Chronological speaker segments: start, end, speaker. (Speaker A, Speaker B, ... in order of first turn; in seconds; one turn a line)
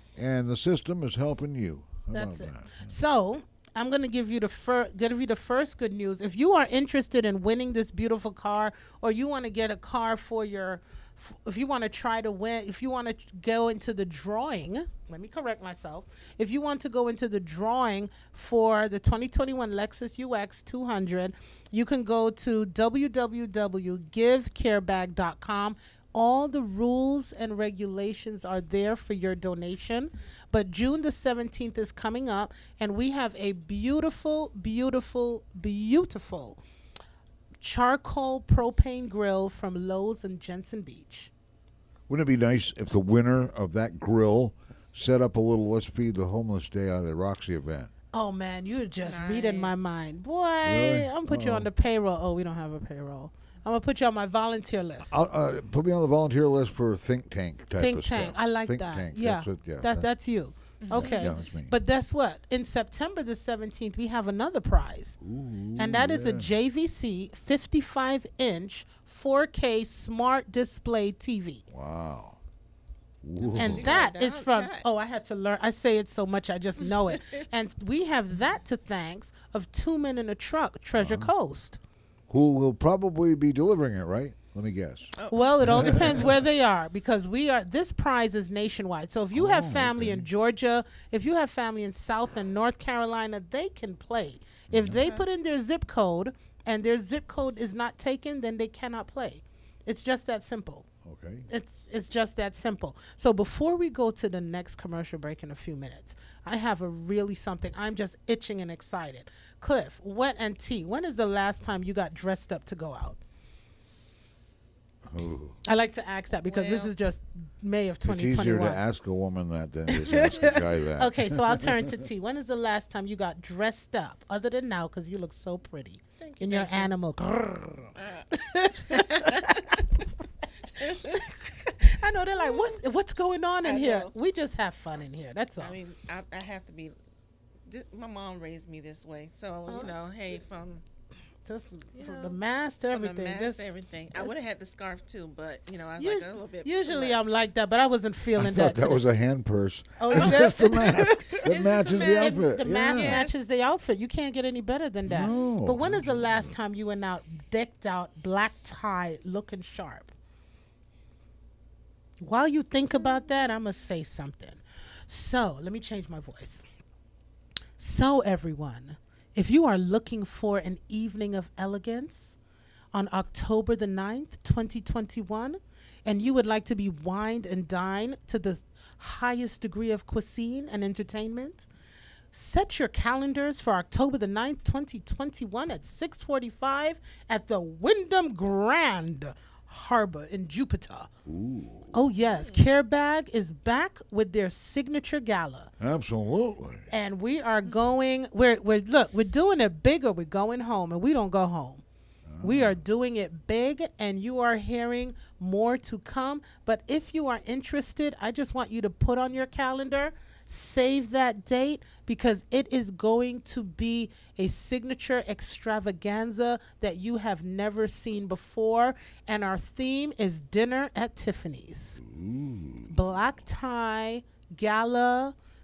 Speaker A: 0.1-3.0
Speaker B: 2.1-36.6
Speaker B: 37.6-41.3
Speaker A: 42.1-47.9
Speaker B: 48.1-55.2
Speaker C: 49.0-49.9
Speaker A: 50.6-51.7
Speaker A: 55.1-60.1
Speaker B: 57.8-65.2
Speaker C: 60.8-61.3
Speaker A: 60.9-61.7
Speaker A: 65.2-66.5
Speaker B: 65.8-71.6
Speaker A: 71.7-72.4
Speaker A: 73.2-74.0
Speaker C: 73.4-74.8
Speaker B: 73.6-81.8
Speaker C: 76.8-77.3
Speaker A: 81.0-81.3
Speaker A: 82.3-86.3
Speaker C: 85.2-86.2
Speaker B: 85.3-100.8
Speaker A: 89.3-90.3
Speaker A: 94.7-95.0
Speaker C: 95.0-95.2
Speaker A: 101.0-101.5
Speaker B: 101.5-113.2
Speaker A: 115.0-115.6
Speaker B: 115.7-118.8
Speaker C: 116.3-116.9
Speaker A: 118.0-121.6
Speaker B: 119.9-129.6
Speaker C: 126.2-126.9
Speaker C: 128.0-129.8
Speaker C: 130.8-131.3
Speaker B: 130.9-135.8
Speaker C: 132.4-132.7
Speaker C: 133.6-134.1
Speaker C: 135.6-136.9
Speaker C: 137.7-140.8
Speaker B: 141.4-144.4
Speaker C: 142.0-142.4
Speaker C: 142.9-147.3
Speaker B: 146.0-149.0
Speaker A: 148.3-153.2
Speaker B: 150.0-151.4
Speaker C: 150.1-150.4
Speaker C: 151.4-153.3
Speaker B: 152.2-160.1
Speaker A: 155.1-156.5
Speaker B: 162.2-166.6
Speaker B: 167.8-172.4
Speaker B: 172.9-181.7
Speaker B: 182.3-191.1
Speaker A: 191.2-191.9
Speaker B: 191.9-195.7
Speaker C: 192.2-192.7
Speaker A: 195.8-196.9
Speaker B: 196.9-201.8
Speaker A: 202.3-202.8
Speaker B: 202.4-222.0
Speaker A: 222.0-222.9
Speaker B: 222.9-225.3